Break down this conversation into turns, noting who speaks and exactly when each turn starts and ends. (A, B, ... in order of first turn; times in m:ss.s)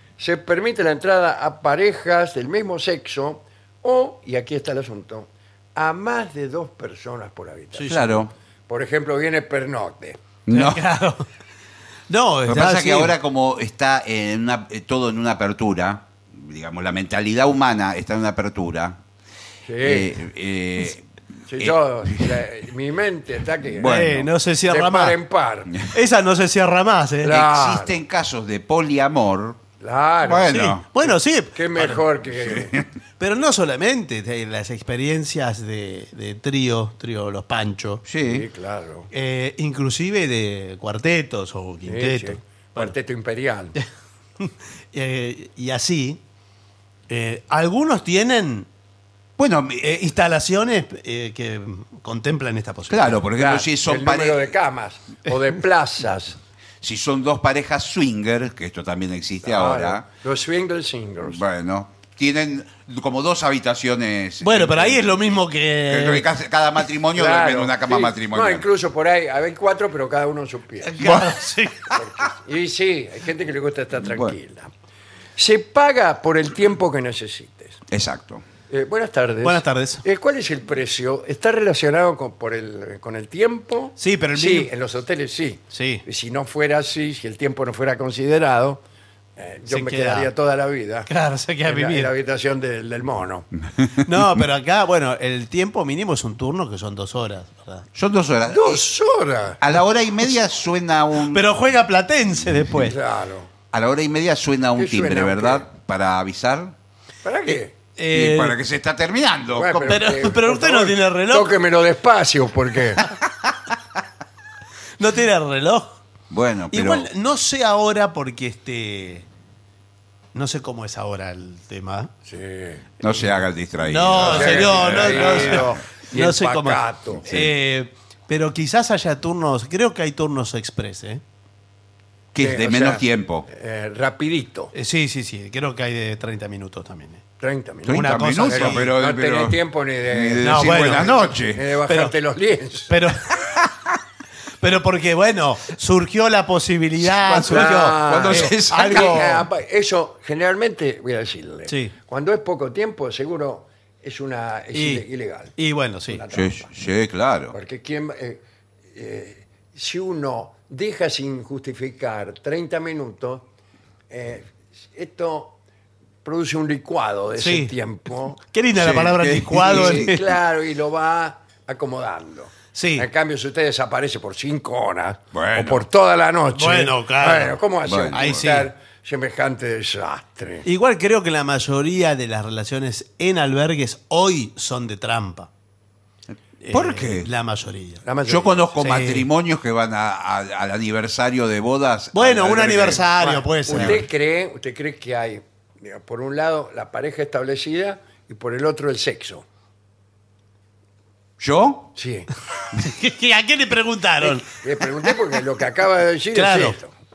0:00.2-0:08.1 A
0:07.7-0:08.2 B
0:07.9-0:08.3 C
0:08.7-0:10.2 A
0:10.5-0:10.8 C
0:10.5-0:11.2 B
0:12.1-0:13.1 B
0:12.4-0:19.0 C
0:19.6-0:20.2 A
0:19.8-0:21.0 C
0:21.5-0:24.0 A
0:21.6-0:22.3 C
0:23.6-0:24.3 C
0:23.8-0:25.2 B
0:24.7-0:25.8 A
0:25.9-0:27.4 B
0:27.2-0:28.0 A
0:27.2-0:29.6 C
0:29.8-0:32.8 A
0:30.2-0:30.8 C
0:30.5-0:32.0 B
0:32.3-0:32.8 C
0:33.2-0:38.0 B
0:38.0-0:38.4 C
0:38.2-0:39.1 A
0:39.1-0:42.9 B
0:41.9-0:43.8 A
0:44.4-0:46.2 B
0:47.1-0:48.7 B
0:49.4-0:50.0 C
0:49.8-0:53.2 B
0:52.9-0:54.5 C
0:53.4-0:56.4 A
0:56.8-1:00.0 C
0:59.4-1:01.4 A
1:01.2-1:05.2 C
1:04.4-1:06.2 B
1:05.9-1:08.6 C
1:07.1-1:11.0 A
1:10.8-1:11.9 B
1:11.0-1:11.4 C
1:11.9-1:14.7 A
1:14.0-1:14.4 C
1:15.4-1:17.8 A
1:17.9-1:18.4 C
1:18.7-1:28.8 A
1:19.4-1:20.0 B
1:24.0-1:24.7 B
1:25.7-1:26.0 B
1:29.4-1:31.1 A
1:29.7-1:30.3 B
1:31.1-1:32.1 B
1:31.6-1:33.5 A
1:33.8-1:34.2 C
1:34.0-1:37.9 B
1:37.9-1:38.9 C
1:38.5-1:39.6 A
1:39.6-1:41.4 C
1:41.3-1:43.0 B
1:42.8-1:43.5 A
1:43.7-1:46.7 C
1:44.8-1:45.7 A
1:47.2-1:47.7 A
1:47.5-1:48.6 B
1:48.1-1:50.1 C
1:49.5-1:53.1 A
1:49.9-1:51.5 B
1:55.0-1:55.9 B
1:56.3-1:57.1 C
1:56.7-1:59.2 B
2:00.3-2:02.1 B
2:02.2-2:02.8 A
2:03.0-2:05.8 C
2:03.8-2:11.2 B
2:04.2-2:07.2 A
2:12.3-2:13.5 C
2:12.4-2:14.7 A
2:14.7-2:17.2 B
2:17.4-2:23.0 A
2:17.8-2:21.6 C
2:17.9-2:18.9 B
2:20.4-2:21.2 B
2:21.9-2:22.1 B
2:22.9-2:23.3 B
2:24.6-2:29.4 B
2:27.0-2:29.4 C
2:27.4-2:35.6 A
2:31.7-2:31.9 B
2:34.7-2:35.0 B
2:35.6-2:36.2 B
2:36.1-2:36.7 A
2:36.3-2:37.5 C
2:37.5-2:43.4 A
2:44.1-2:45.6 A
2:46.2-2:48.4 A
2:47.4-2:47.7 B
2:48.5-2:50.2 B
2:48.7-2:50.1 C
2:49.6-3:00.6 A
2:52.7-2:53.1 B
2:55.3-2:55.8 C
2:56.5-2:57.6 B
2:57.8-2:58.4 C
2:58.1-2:58.7 B
3:00.6-3:05.5 B
3:06.6-3:08.0 B
3:06.7-3:07.3 C
3:08.0-3:08.7 A
3:08.3-3:14.0 C
3:08.8-3:09.3 B
3:12.1-3:14.0 B
3:13.2-3:19.4 A
3:21.4-3:21.9 C
3:22.0-3:22.3 A
3:22.8-3:24.4 B
3:24.2-3:26.9 A
3:26.3-3:26.8 B